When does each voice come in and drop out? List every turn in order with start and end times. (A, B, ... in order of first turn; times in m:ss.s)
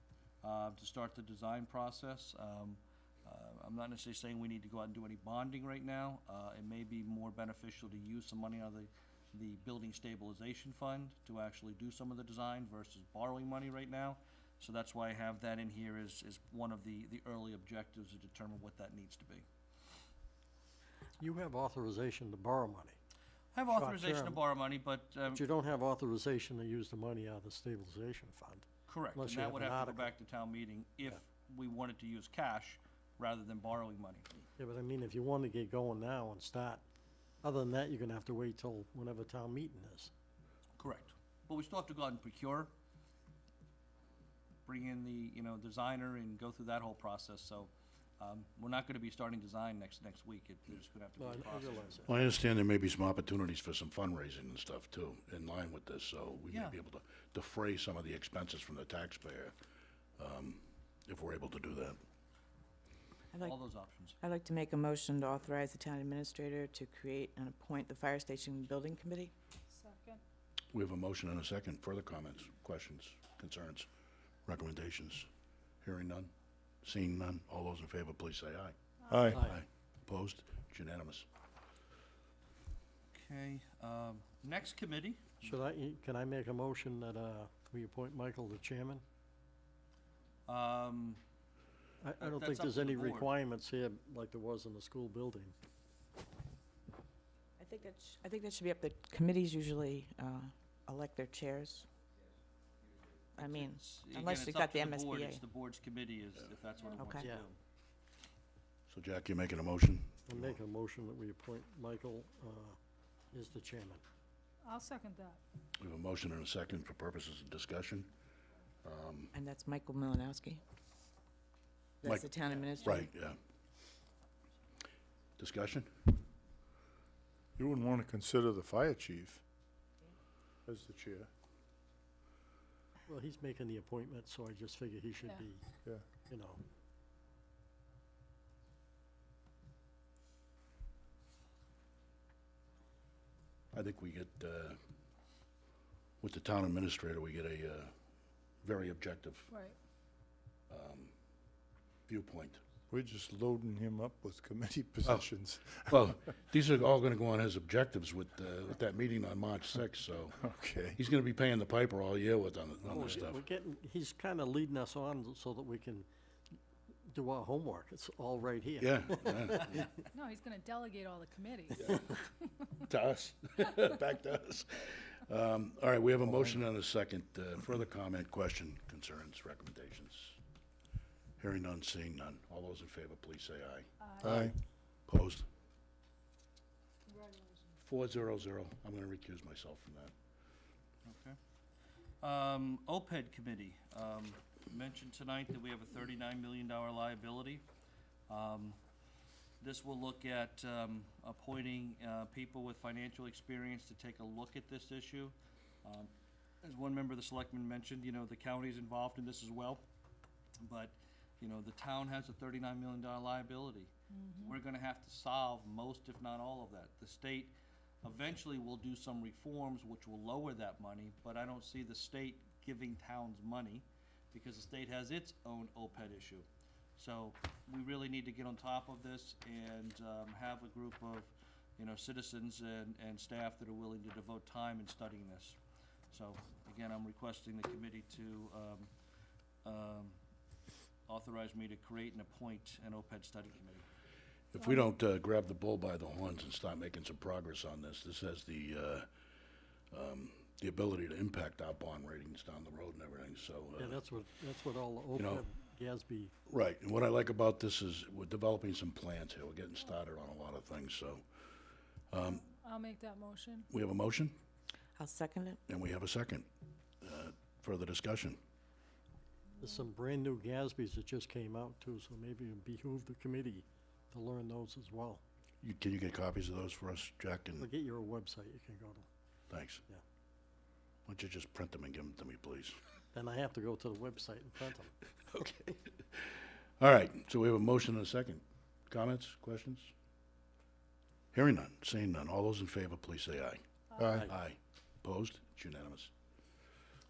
0:00.4-0:19.5 A
0:21.2-0:23.0 B
0:23.5-0:25.4 A
0:23.7-0:24.5 B
0:25.3-0:30.2 B
0:28.9-0:34.3 A
0:34.6-0:36.8 B
0:37.4-0:40.1 B
0:40.8-0:42.7 A
0:44.7-0:52.1 A
0:51.2-0:52.1 B
0:52.1-0:59.6 C
0:56.5-0:56.8 A
1:00.2-1:02.0 C
1:03.4-1:04.2 A
1:04.2-1:09.3 D
1:09.7-1:10.2 E
1:10.7-1:13.9 C
1:14.5-1:15.3 C
1:15.8-1:16.3 C
1:16.8-1:18.8 C
1:19.0-1:19.4 E
1:19.1-1:19.4 F
1:19.3-1:19.6 B
1:19.3-1:21.3 C
1:23.1-1:25.4 A
1:25.4-1:29.0 B
1:30.5-1:31.2 A
1:32.0-1:35.6 B
1:32.2-1:33.3 A
1:37.6-1:41.9 D
1:43.4-1:45.4 D
1:43.4-1:47.6 A
1:46.8-1:47.1 E
1:47.0-1:47.3 D
1:47.2-1:47.5 B
1:48.9-1:50.6 C
1:50.3-1:52.8 B
1:53.3-1:54.0 B
1:54.6-1:55.4 E
1:55.8-1:58.1 C
1:58.8-1:59.3 C
1:59.3-2:00.6 D
2:02.0-2:03.0 D
2:02.0-2:03.4 C
2:05.4-2:06.0 C
2:07.6-2:09.4 F
2:10.7-2:11.3 F
2:13.1-2:15.7 B
2:16.2-2:16.6 B
2:23.7-2:24.8 C
2:26.2-2:27.9 C
2:28.6-2:29.5 C
2:29.5-2:29.8 E
2:30.7-2:31.1 C
2:32.1-2:32.6 C
2:32.9-2:36.0 F
2:35.0-2:40.4 C
2:40.4-2:41.0 F
2:41.0-2:43.4 C
2:42.9-2:46.1 B
2:47.0-2:50.0 B
2:48.8-2:49.8 C
2:50.1-2:51.9 E
2:51.8-2:52.2 C
2:52.9-3:00.4 C
3:01.4-3:04.5 C
3:04.0-3:04.5 E
3:04.2-3:04.5 F
3:05.1-3:05.5 C
3:07.1-3:07.8 E
3:07.8-3:10.1 C
3:11.0-3:11.4 A
3:12.2-3:17.6 A
3:18.3-3:18.8 A
3:19.6-3:26.1 A
3:26.6-3:29.8 A
3:30.6-3:33.9 A
3:34.1-3:34.6 E
3:34.4-3:46.5 A
3:47.0-3:55.6 A
3:56.1-3:58.9 A
3:59.6-4:00.2 A
4:01.1-4:03.8 A
4:04.5-4:09.1 C
4:04.6-4:04.9 E
4:09.9-4:14.0 C
4:13.8-4:16.4 B
4:15.2-4:15.4 C
4:16.5-4:21.2 C
4:22.1-4:22.4 C
4:22.2-4:23.7 E
4:23.7-4:24.4 C
4:25.0-4:25.6 D
4:25.7-4:26.5 C
4:27.0-4:28.4 C
4:29.6-4:29.9 E
4:29.6-4:35.2 B
4:35.6-4:37.7 C
4:37.6-4:39.1 B
4:39.5-4:39.8 C
4:41.1-4:42.8 C
4:43.1-4:45.1 B
4:45.4-4:49.9 C
4:51.3-4:53.6 C
4:53.9-4:54.2 E
4:54.0-4:54.2 F
4:54.1-4:54.3 B
4:54.3-4:56.1 C